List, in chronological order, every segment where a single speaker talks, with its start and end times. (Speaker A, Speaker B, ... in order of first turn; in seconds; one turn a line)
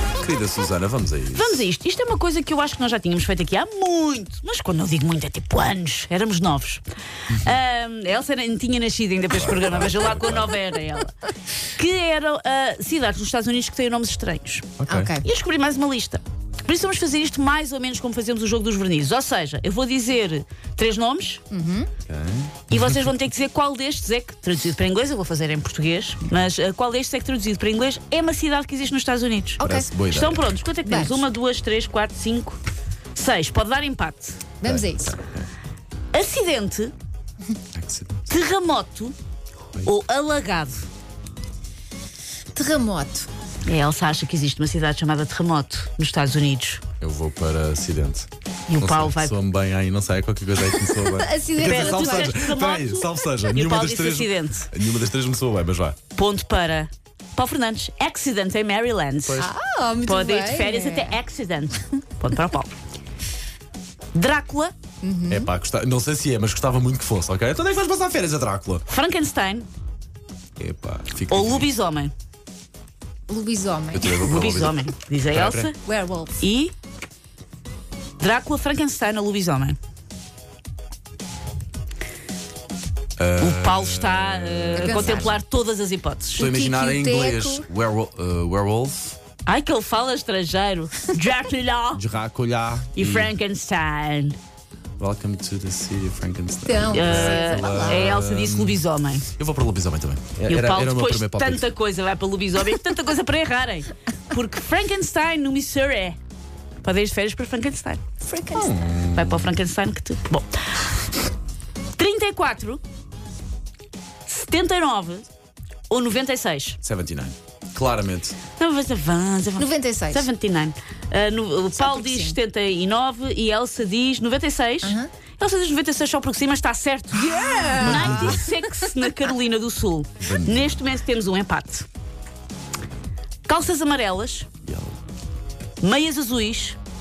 Speaker A: 0.2-1.6
Speaker B: 1.3-11.1
Speaker A: 9.3-10.5
Speaker B: 11.7-21.4
Speaker A: 14.8-15.1
Speaker C: 14.9-15.3
Speaker C: 21.5-21.9
Speaker A: 22.1-23.0
Speaker B: 22.7-32.6
Speaker C: 29.6-29.9
Speaker A: 29.6-30.5
Speaker C: 30.8-31.2
Speaker B: 33.1-34.4
Speaker C: 34.6-35.1
Speaker A: 34.6-35.5
Speaker B: 36.1-36.9
Speaker A: 37.7-38.2
Speaker B: 38.3-39.1
Speaker B: 39.8-40.9
Speaker C: 42.5-43.3
Speaker B: 43.6-46.8
Speaker A: 47.0-56.0
Speaker B: 48.7-49.4
Speaker C: 50.8-52.4
Speaker B: 51.6-54.7
Speaker B: 56.1-59.5
Speaker A: 59.2-59.5
Speaker C: 59.4-61.2
Speaker B: 60.0-62.7
Speaker B: 64.1-64.7
Speaker C: 65.0-65.5
Speaker A: 65.3-68.8
Speaker B: 68.9-69.7
Speaker A: 70.6-71.7
Speaker B: 71.3-72.1
Speaker C: 73.3-74.1
Speaker A: 73.9-75.7
Speaker B: 74.1-75.8
Speaker C: 75.8-76.4
Speaker B: 76.4-76.7
Speaker B: 78.2-79.8
Speaker A: 83.2-85.3
Speaker B: 83.4-86.4
Speaker C: 84.8-85.4
Speaker C: 86.3-87.7
Speaker A: 86.3-89.2
Speaker B: 89.5-92.0
Speaker A: 91.9-93.3
Speaker B: 92.9-94.4
Speaker A: 95.0-101.7
Speaker C: 96.7-98.2
Speaker B: 96.9-99.2
Speaker B: 100.4-106.2
Speaker B: 106.8-108.1
Speaker C: 108.2-108.7
Speaker A: 108.5-109.5
Speaker B: 109.1-110.8
Speaker B: 111.9-112.8
Speaker B: 114.3-115.3
Speaker B: 115.9-116.8
Speaker A: 116.8-118.3
Speaker B: 118.5-131.8
Speaker C: 119.6-120.3
Speaker C: 121.8-122.4
Speaker C: 124.8-125.1
Speaker C: 127.1-128.5
Speaker A: 127.8-128.4
Speaker A: 130.2-130.9
Speaker B: 133.4-134.5
Speaker A: 134.6-134.9
Speaker B: 135.8-136.8